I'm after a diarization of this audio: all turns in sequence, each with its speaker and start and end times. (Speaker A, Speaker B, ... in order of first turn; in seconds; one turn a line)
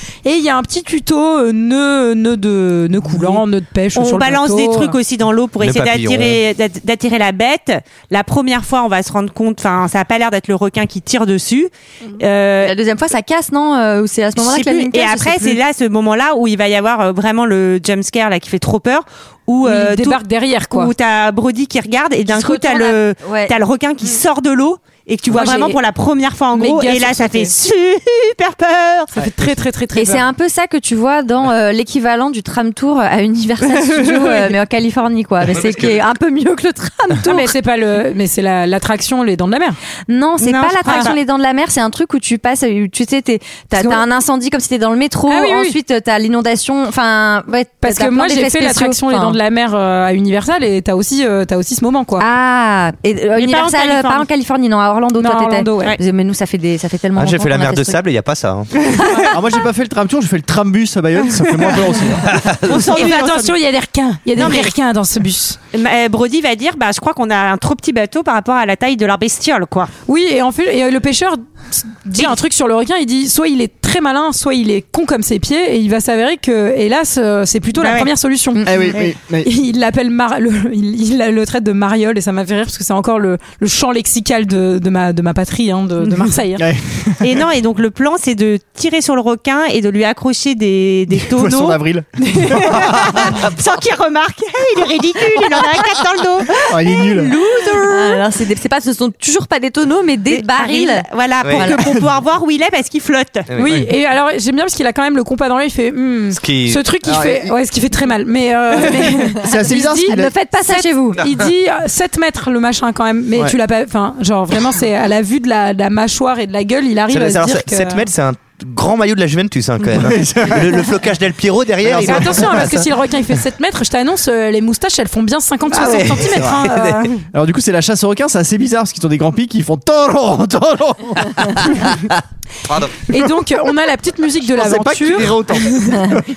Speaker A: 0.2-5.0
Speaker B: 4.0-12.8
Speaker C: 5.6-6.4
Speaker D: 12.6-15.6
Speaker B: 14.4-29.1
Speaker A: 19.6-20.9
Speaker D: 22.3-23.5
Speaker A: 25.3-25.8
Speaker A: 26.5-27.5
Speaker A: 29.1-30.3
Speaker D: 29.9-37.5
Speaker A: 37.2-39.8
Speaker D: 40.1-49.4
Speaker B: 40.4-41.2
Speaker A: 45.3-45.8
Speaker A: 47.8-52.3
Speaker D: 52.2-58.0
Speaker B: 53.4-54.3
Speaker A: 55.2-56.0
Speaker C: 57.2-58.9
Speaker E: 59.3-62.3
Speaker C: 62.3-62.9
Speaker B: 62.7-63.6
Speaker A: 62.9-65.6
Speaker B: 64.4-64.7
Speaker B: 65.7-69.9
Speaker A: 70.1-86.7
Speaker B: 77.8-78.1
Speaker D: 78.6-78.9
Speaker E: 78.6-79.5
Speaker E: 86.6-87.2
Speaker B: 87.2-98.2
Speaker E: 91.2-93.3
Speaker E: 96.7-97.3
Speaker D: 97.5-101.9
Speaker B: 100.3-103.5
Speaker C: 101.4-101.7
Speaker C: 103.5-103.9
Speaker A: 103.6-118.1
Speaker C: 106.3-106.8
Speaker E: 107.0-107.5
Speaker E: 109.0-110.3
Speaker D: 109.1-111.2
Speaker C: 111.2-111.5
Speaker C: 117.1-122.8
Speaker E: 119.9-120.9
Speaker E: 121.8-122.8
Speaker A: 122.0-127.2
Speaker C: 125.8-127.0
Speaker E: 125.9-126.7
Speaker E: 127.3-132.1
Speaker C: 132.7-133.0
Speaker A: 133.1-136.0
Speaker E: 134.6-136.3